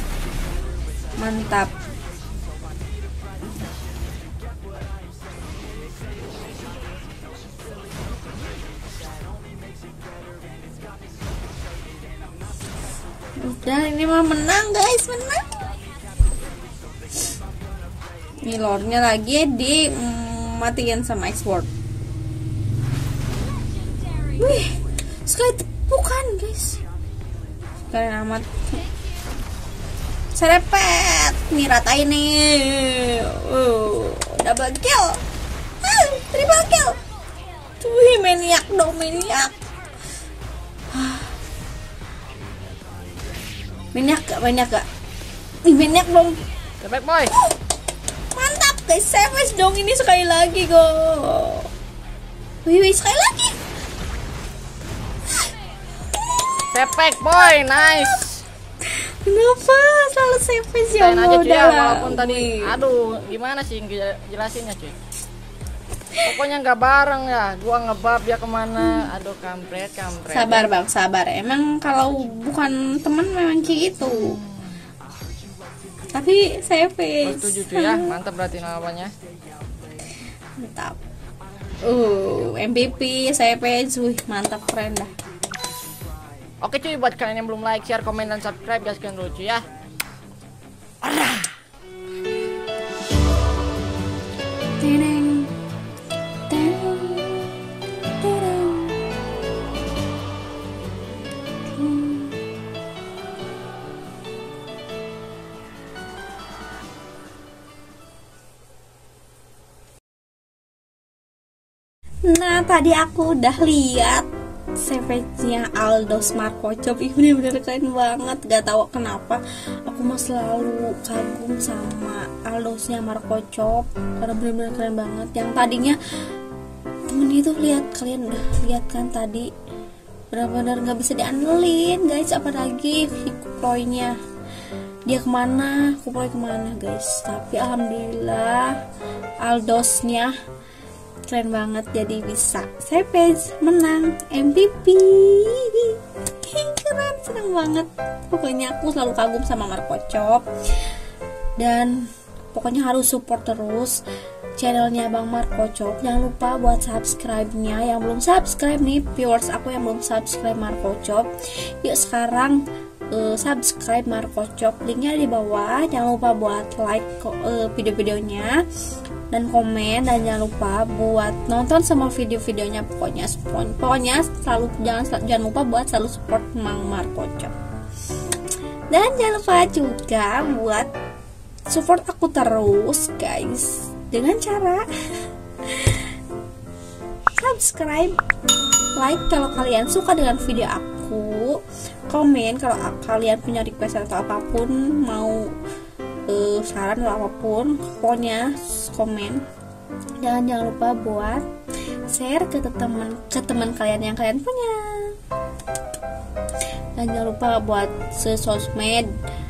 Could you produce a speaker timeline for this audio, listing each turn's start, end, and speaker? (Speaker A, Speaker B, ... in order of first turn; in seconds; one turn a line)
Speaker A: 1.2-1.7
Speaker A: 13.4-15.6
Speaker A: 18.4-21.7
Speaker A: 24.4-26.8
Speaker A: 27.9-28.8
Speaker A: 30.4-35.2
Speaker A: 35.8-37.0
Speaker A: 37.8-39.5
Speaker A: 40.9-41.3
Speaker A: 44.0-44.9
Speaker A: 45.6-46.4
Speaker B: 46.8-47.3
Speaker A: 48.3-51.7
Speaker A: 52.6-53.6
Speaker B: 56.7-58.4
Speaker A: 58.8-62.8
Speaker B: 60.9-65.0
Speaker B: 66.2-70.7
Speaker A: 68.8-69.1
Speaker A: 70.3-74.4
Speaker A: 76.1-78.2
Speaker B: 77.2-79.1
Speaker A: 80.6-81.0
Speaker A: 81.8-85.1
Speaker B: 86.6-89.6
Speaker B: 91.0-91.5
Speaker A: 94.8-95.5
Speaker A: 96.5-97.5
Speaker A: 98.1-99.0
Speaker A: 101.8-102.3
Speaker A: 112.3-126.0
Speaker A: 127.1-129.5
Speaker A: 130.3-134.2
Speaker A: 135.1-138.8
Speaker A: 139.4-140.3
Speaker A: 141.3-150.4
Speaker A: 151.6-154.0
Speaker A: 154.6-161.3
Speaker A: 161.8-168.6
Speaker A: 169.3-177.5
Speaker A: 178.9-180.9
Speaker A: 181.7-184.8
Speaker A: 185.7-186.1
Speaker A: 187.4-188.2
Speaker A: 189.0-195.5
Speaker A: 196.3-199.4
Speaker A: 200.2-201.4
Speaker A: 202.1-205.2
Speaker A: 207.0-209.1